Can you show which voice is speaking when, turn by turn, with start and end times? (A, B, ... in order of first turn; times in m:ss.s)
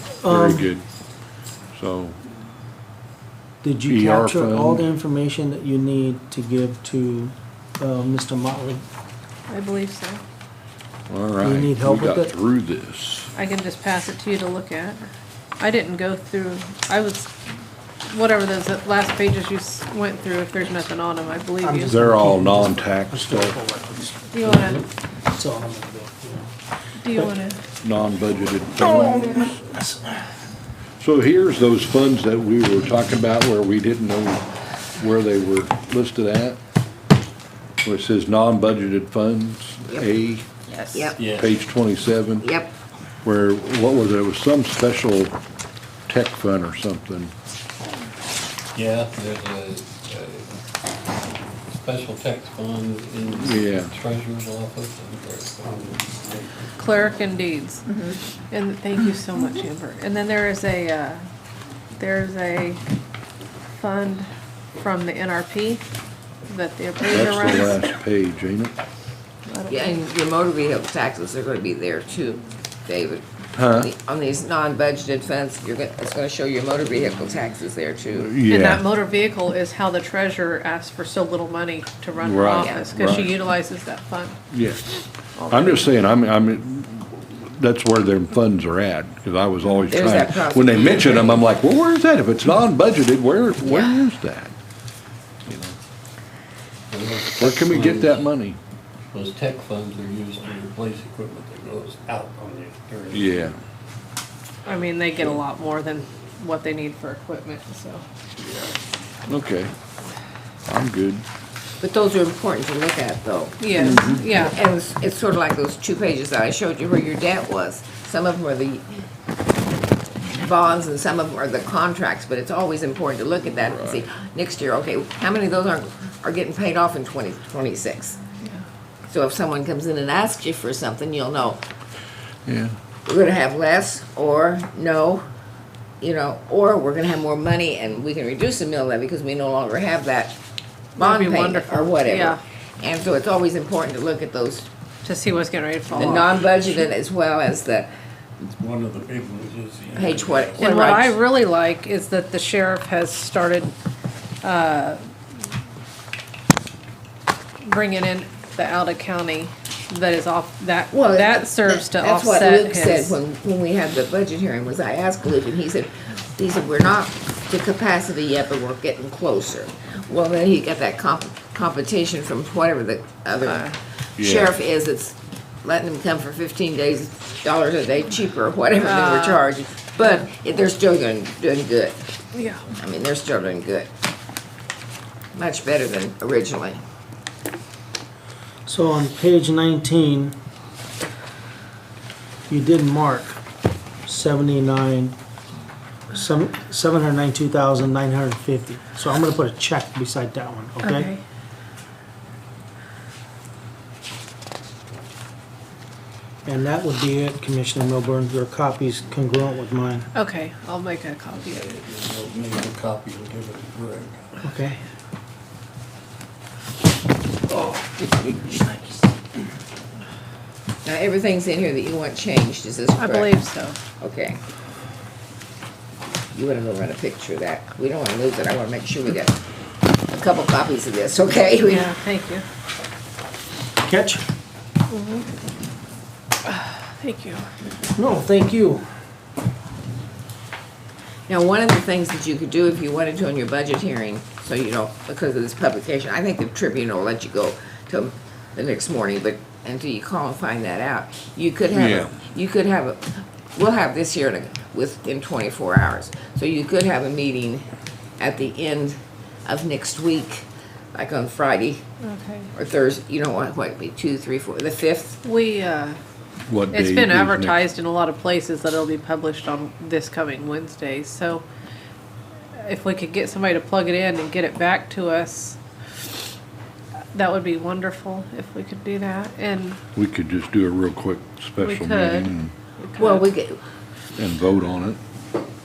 0:00.2-0:00.7 A
0:00.3-0:00.8 B
0:01.7-0:02.2 B
0:03.6-0:08.8 A
0:03.9-0:04.9 B
0:09.5-0:10.2 C
0:11.1-0:13.3 B
0:11.4-0:12.3 A
0:13.3-0:15.0 C
0:15.6-0:17.3 C
0:18.1-0:22.1 C
0:21.6-0:24.8 A
0:21.9-0:23.6 B
0:24.3-0:24.8 C
0:25.4-0:26.4 A
0:27.0-0:27.6 C
0:27.8-0:29.5 B
0:28.8-0:30.1 A
0:31.0-0:34.4 B
0:35.0-0:36.6 B
0:37.8-0:40.5 B
0:40.8-0:41.2 D
0:41.1-0:41.6 E
0:41.3-0:42.5 B
0:42.4-0:42.7 D
0:43.2-0:45.4 B
0:46.1-0:47.3 B
0:48.7-0:50.5 E
0:51.7-0:56.6 E
0:53.4-0:53.9 B
0:56.8-0:57.8 C
0:58.5-1:01.2 C
1:02.0-1:02.8 C
1:03.8-1:05.8 C
1:06.5-1:07.8 C
1:07.1-1:08.7 B
1:09.5-1:10.0 C
1:09.7-1:18.3 D
1:13.5-1:13.9 B
1:18.2-1:18.9 B
1:18.5-1:24.4 C
1:22.2-1:23.3 B
1:22.6-1:22.8 D
1:24.5-1:24.9 B
1:25.4-1:25.9 C
1:25.5-1:34.5 B
1:29.9-1:31.5 D
1:33.6-1:34.1 D
1:35.4-1:35.8 B
1:36.9-1:38.2 E
1:37.4-1:38.6 B
1:39.1-1:43.5 E
1:43.1-1:43.6 B
1:44.6-1:48.0 C
1:49.3-1:49.7 B
1:50.7-1:51.2 B
1:51.8-1:59.0 D
1:53.6-1:54.6 C
1:53.8-1:54.2 B
2:00.3-2:08.2 D
2:09.1-2:11.6 D
2:12.5-2:12.8 B
2:13.0-2:15.2 D
2:16.0-2:20.4 D
2:21.0-2:22.4 C
2:21.0-2:24.7 D
2:25.0-2:26.8 C
2:25.9-2:27.9 D
2:28.5-2:30.7 E
2:30.0-2:31.2 D
2:30.6-2:33.7 C
2:34.4-2:35.0 C
2:37.6-2:43.2 C
2:40.9-3:02.0 D
2:53.4-2:53.8 C
2:54.2-2:54.5 B
2:58.8-2:59.5 C
3:02.3-3:02.7 C
3:02.8-3:03.9 D
3:05.3-3:06.8 D
3:08.7-3:10.3 A
3:12.5-3:13.3 A
3:14.1-3:15.1 A
3:16.1-3:21.1 A
3:20.8-3:21.2 C
3:26.4-3:30.0 A
3:30.1-3:31.7 C
3:31.4-3:34.4 E
3:34.4-3:34.8 A
3:40.8-3:43.3 D
3:43.0-3:43.8 C
3:44.0-3:44.4 D
3:46.3-3:49.4 D
3:50.1-3:51.9 D
3:51.6-3:52.4 C
3:53.9-3:54.2 A
3:54.9-3:55.2 C
3:56.4-3:57.4 C
3:58.0-3:58.7 A
4:01.3-4:17.6 D
4:11.7-4:12.2 B
4:18.2-4:21.8 D
4:22.0-4:22.5 C
4:22.5-4:25.2 D
4:25.2-4:26.0 C
4:26.5-4:27.6 B
4:26.7-4:31.4 C
4:32.6-4:35.6 C
4:37.1-4:39.8 C
4:39.9-4:42.5 B
4:41.6-4:43.2 C
4:43.0-4:43.6 D
4:44.2-4:45.0 B